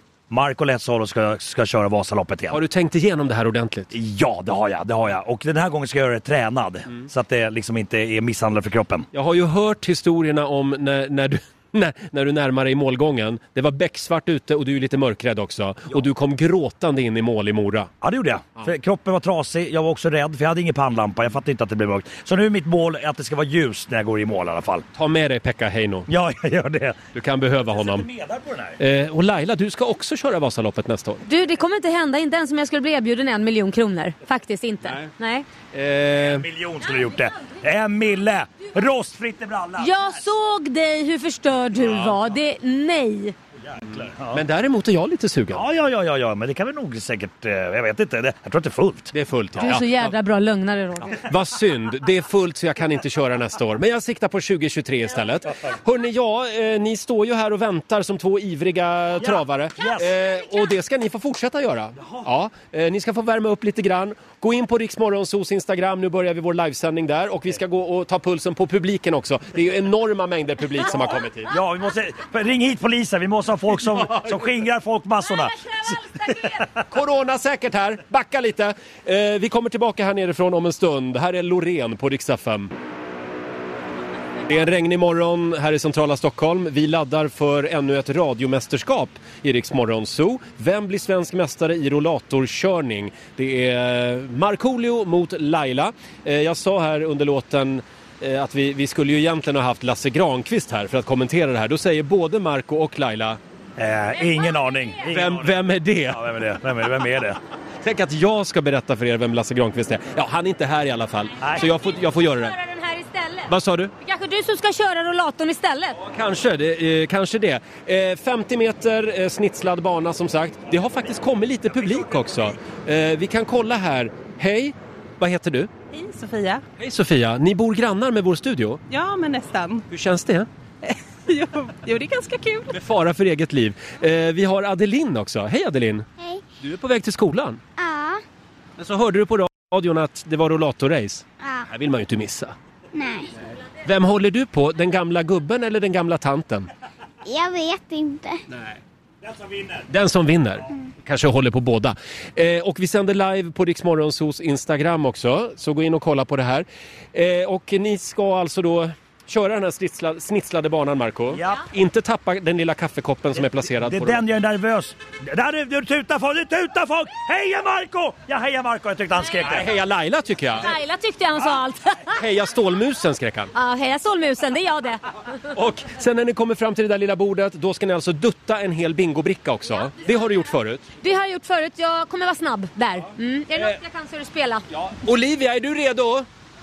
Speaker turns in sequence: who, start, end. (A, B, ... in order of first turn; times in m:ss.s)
0:00.3-0:02.6 A
0:02.5-0:03.9 B
0:03.9-0:09.1 A
0:09.1-0:17.9 B
0:18.0-0:24.8 A
0:25.0-0:26.1 B
0:26.1-0:27.0 A
0:27.2-0:28.1 B
0:27.6-0:28.8 A
0:28.8-0:31.2 B
0:31.3-0:35.5 C
0:34.8-0:35.1 B
0:35.7-0:36.5 B
0:36.1-0:40.3 A
0:39.8-0:43.4 C
0:41.8-0:42.2 A
0:43.7-0:44.4 A
0:44.3-0:45.6 B
0:45.5-0:49.1 A
0:49.1-0:50.1 B
0:49.6-0:51.2 C
0:51.2-1:11.5 B
0:59.2-1:00.1 A
1:02.0-1:02.3 A
1:11.5-1:16.4 A
1:15.9-1:16.5 C
1:16.9-1:22.7 B
1:24.5-1:43.4 B
1:43.8-1:47.4 A
1:44.3-1:45.0 C
1:45.1-1:46.3 B
1:47.8-1:52.5 B
1:51.4-1:51.7 A
1:51.9-1:53.5 C
1:53.5-1:53.9 B
1:54.0-1:56.0 C
1:56.0-2:05.7 B
2:01.7-2:02.5 A
2:05.9-2:06.6 D
2:06.8-2:08.8 B
2:08.9-2:09.8 D
2:09.9-2:10.5 B
2:10.8-2:12.8 D
2:12.7-2:16.1 B
2:16.6-2:17.6 B
2:17.8-2:18.2 E
2:18.8-2:22.5 B
2:22.9-2:23.3 E
2:23.8-2:26.7 B
2:27.2-2:28.4 E
2:29.2-2:29.9 A
2:29.9-2:44.2 B
2:41.3-2:41.6 A
2:43.5-2:49.7 A
2:49.4-2:50.7 B
2:50.6-2:52.2 C
2:52.2-2:53.5 B
2:53.6-2:55.0 C
2:55.5-3:00.8 B
3:01.0-3:04.6 C
3:04.7-3:06.3 B